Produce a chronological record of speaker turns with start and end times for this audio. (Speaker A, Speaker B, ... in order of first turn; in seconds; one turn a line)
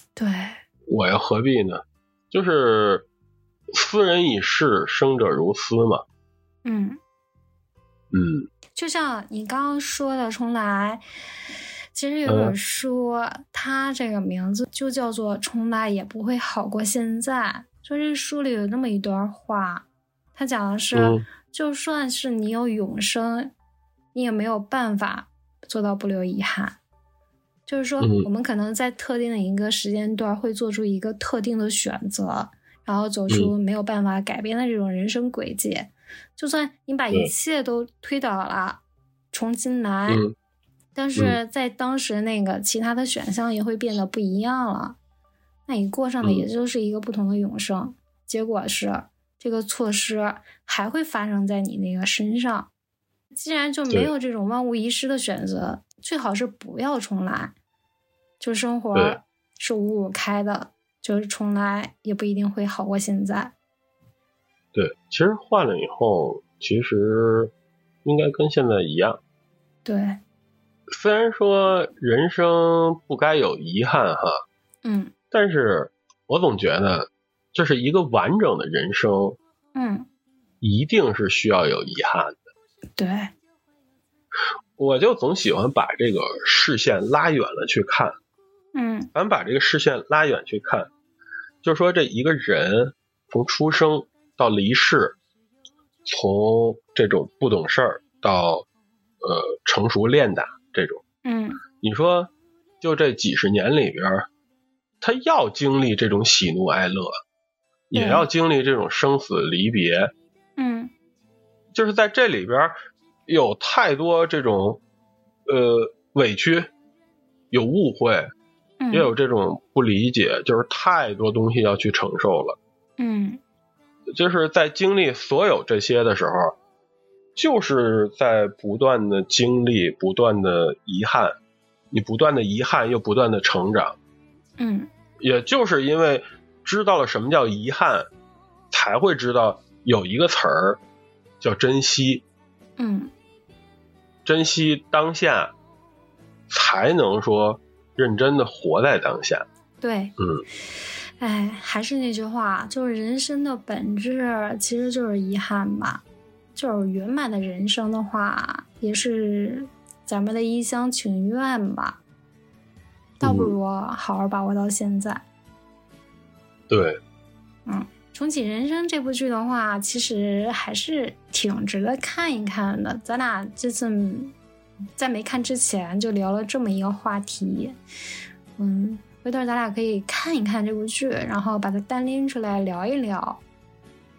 Speaker A: 0.2-0.6
Speaker B: 0.9-3.1
Speaker B: 3.7-6.0
Speaker A: 6.7-7.0
Speaker B: 8.1-8.5
Speaker A: 8.8-11.0
Speaker A: 11.9-23.5
Speaker B: 12.3-12.6
Speaker B: 20.9-21.2
Speaker A: 24.1-26.8
Speaker A: 27.7-40.2
Speaker B: 28.0-28.3
Speaker B: 40.1-40.4
Speaker A: 41.0-45.0
Speaker A: 45.7-52.7
Speaker A: 53.3-57.5
Speaker A: 58.4-63.5
Speaker B: 64.7-67.5
Speaker B: 68.0-69.2
Speaker A: 69.8-70.2
Speaker B: 70.9-74.4
Speaker A: 74.8-75.1
Speaker B: 75.3-79.4
Speaker A: 79.8-80.1
Speaker B: 80.6-82.5
Speaker A: 83.0-83.3
Speaker B: 84.8-88.2
Speaker A: 88.8-89.1
Speaker B: 89.2-90.9
Speaker B: 91.6-95.2
Speaker B: 96.1-98.7
Speaker B: 99.2-101.0
Speaker A: 101.2-101.6
Speaker B: 101.8-104.3
Speaker B: 105.0-107.2
Speaker B: 107.9-110.1
Speaker A: 108.0-108.3
Speaker A: 110.6-110.9
Speaker B: 111.7-112.8
Speaker B: 113.3-114.8
Speaker B: 115.5-116.7
Speaker B: 117.5-118.3
Speaker A: 118.8-119.1
Speaker B: 118.9-122.6
Speaker A: 123.0-123.4
Speaker B: 124.1-126.6
Speaker B: 127.4-131.4
Speaker B: 131.9-134.0
Speaker A: 134.6-134.9
Speaker B: 135.2-138.1
Speaker B: 138.7-140.8
Speaker B: 141.4-142.2
Speaker A: 142.8-143.1
Speaker B: 144.2-145.5
Speaker B: 146.5-149.5
Speaker A: 149.8-150.2
Speaker B: 150.2-150.4
Speaker A: 151.2-156.0
Speaker A: 156.6-162.0
Speaker A: 163.2-165.2
Speaker B: 163.2-163.6
Speaker B: 166.7-167.0
Speaker A: 167.7-174.3
Speaker A: 175.0-177.8
Speaker A: 178.6-183.4